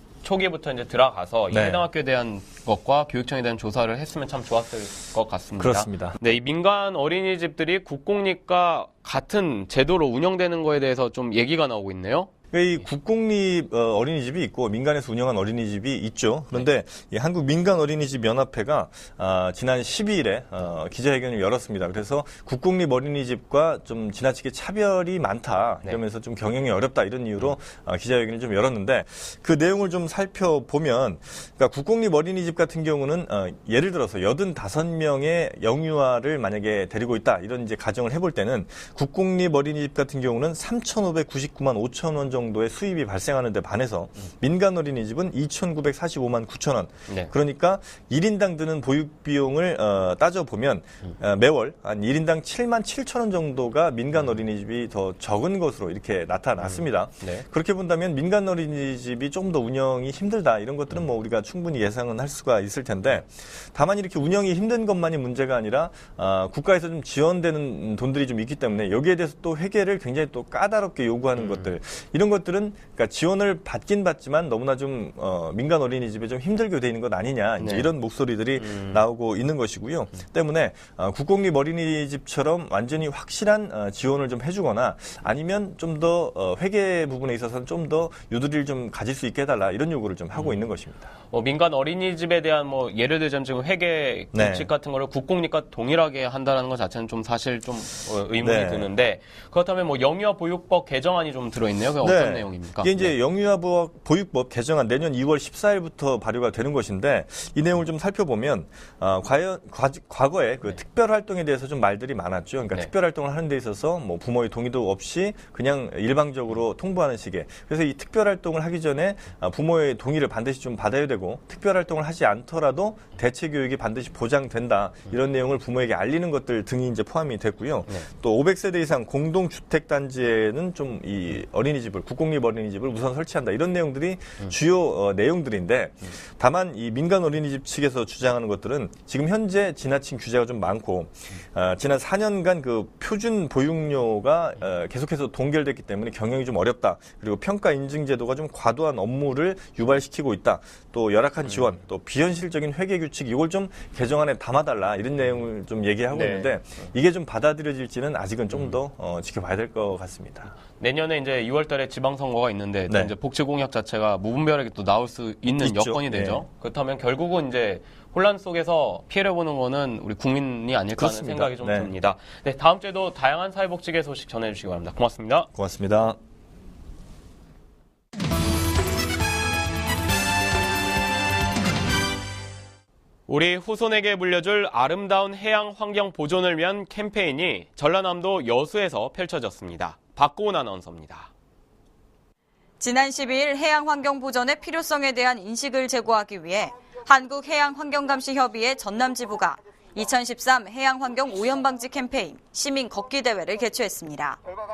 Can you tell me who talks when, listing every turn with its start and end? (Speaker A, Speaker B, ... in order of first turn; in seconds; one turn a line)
Speaker A: 0.2-12.3
Speaker B: 1.5-1.9
Speaker B: 5.6-6.2
Speaker B: 12.5-91.1
Speaker A: 56.6-57.5
Speaker A: 71.4-71.7
Speaker A: 77.6-77.9
Speaker A: 78.6-79.0
Speaker A: 90.3-90.6
Speaker A: 91.3-103.1
Speaker B: 94.3-94.7
Speaker B: 98.4-98.9
Speaker B: 102.0-160.5
Speaker A: 151.5-151.8
Speaker A: 156.1-156.9
Speaker A: 158.5-158.8
Speaker A: 160.8-175.5
Speaker B: 162.9-163.1
Speaker B: 165.6-166.5
Speaker B: 171.0-171.9
Speaker B: 175.5-176.2
Speaker A: 183.3-191.3
Speaker C: 192.8-204.4